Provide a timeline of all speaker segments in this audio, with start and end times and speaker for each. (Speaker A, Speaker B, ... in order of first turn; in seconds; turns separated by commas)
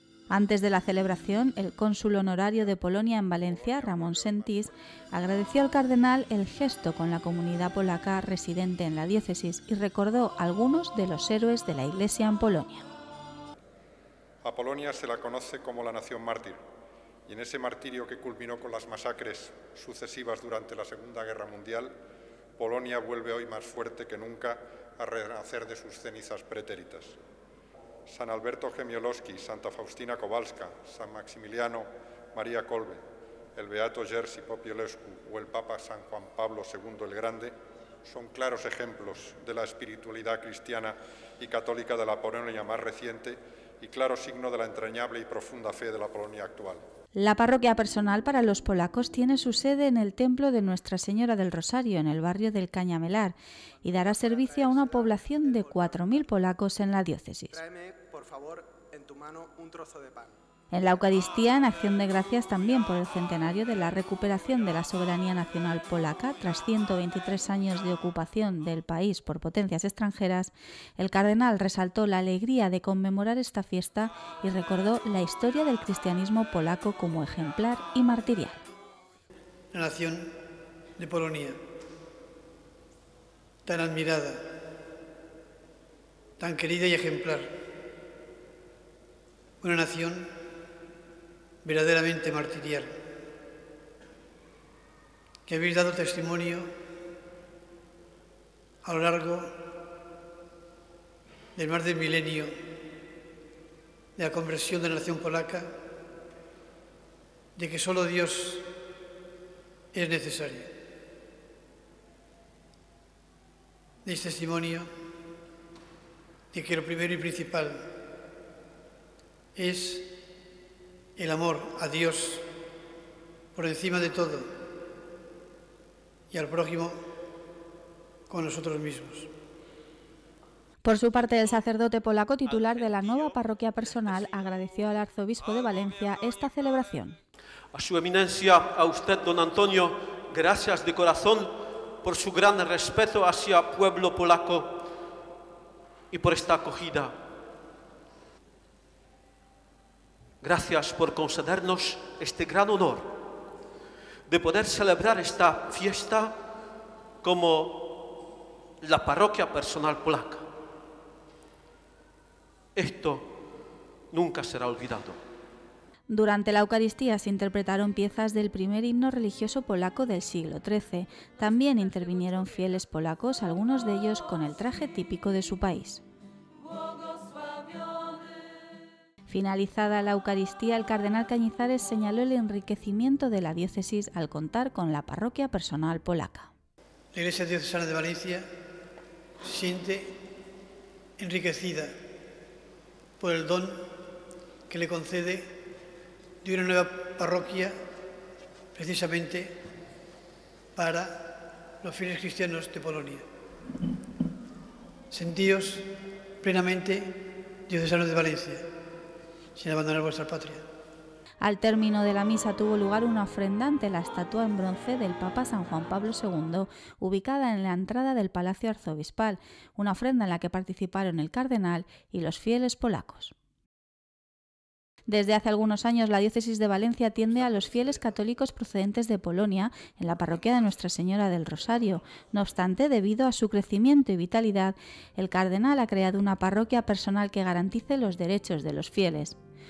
Speaker A: 0.3-12.8, Speaker B: 3.4-4.8, Speaker B: 14.4-16.6, Speaker B: 17.3-21.9, Speaker B: 22.6-27.2, Speaker B: 28.1-33.0, Speaker B: 33.5-46.8, Speaker A: 47.1-57.6, Speaker C: 53.8-56.2, Speaker C: 57.5-60.4, Speaker A: 60.7-78.6, Speaker D: 79.7-80.3, Speaker D: 81.0-81.6, Speaker D: 83.6-84.5, Speaker D: 86.4-87.5, Speaker D: 89.6-90.3, Speaker D: 91.6-92.9, Speaker D: 95.5-96.7, Speaker D: 98.8-99.6, Speaker D: 101.6-102.5, Speaker D: 104.2-105.7, Speaker D: 107.6-108.7, Speaker D: 109.9-110.7, Speaker D: 114.0-114.9, Speaker D: 116.5-117.9, Speaker D: 119.5-120.2, Speaker D: 121.2-122.5, Speaker D: 123.5-124.5, Speaker D: 126.3-127.0, Speaker D: 128.3-129.3, Speaker A: 130.8-137.2, Speaker E: 137.7-144.8, Speaker E: 146.1-147.1, Speaker E: 150.4-153.2, Speaker E: 154.3-156.4, Speaker E: 157.2-158.0, Speaker E: 158.8-160.4, Speaker E: 162.8-163.3, Speaker E: 164.1-165.2, Speaker A: 166.1-176.0, Speaker A: 179.3-186.5, Speaker D: 187.1-188.5, Speaker D: 189.4-190.2, Speaker D: 191.2-191.9, Speaker D: 193.2-193.9, Speaker D: 194.7-195.6, Speaker D: 196.4-197.8, Speaker D: 198.8-199.6, Speaker D: 200.8-203.2, Speaker D: 205.1-205.9, Speaker D: 206.4-208.7, Speaker D: 209.6-210.6, Speaker A: 211.4-223.3, Speaker A: 225.1-239.4